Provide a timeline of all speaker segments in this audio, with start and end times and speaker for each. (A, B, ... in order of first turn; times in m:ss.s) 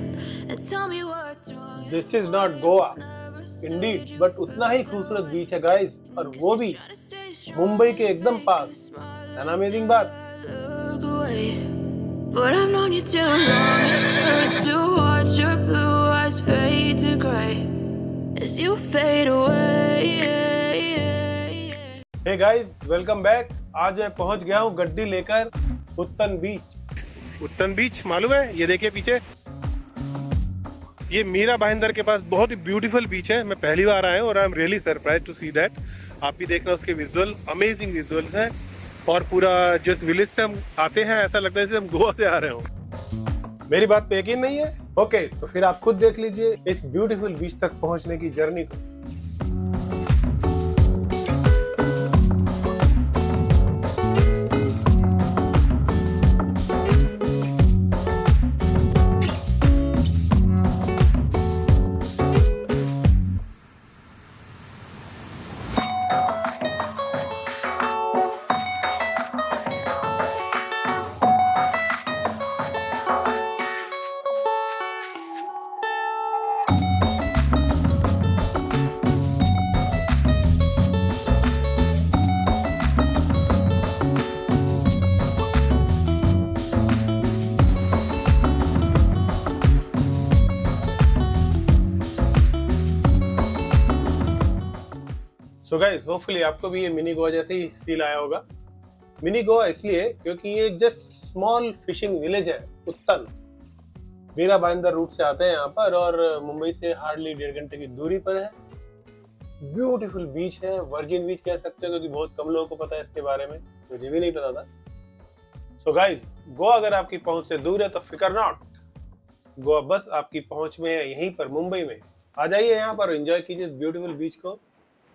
0:00.5-0:05.2 A
0:01.8-0:03.0 B
0:03.6-0:06.8 B
0:06.1-0:11.6 A
0:07.5-0:08.7 B
0:09.4-0:10.1 B
0:12.3-0:17.7 A
0:18.3-0:22.0 A
0:22.2-0:26.7 B
0:27.4-0:29.2 B
0:31.1-0:38.5 B
0:39.1-0:42.7 B
0:43.7-0:48.8 B
1:35.6-1:38.4 B
1:39.2-1:43.3 B
1:44.3-1:48.5 B
1:49.6-1:54.7 B
1:55.8-1:58.7 B
1:59.6-2:04.6 B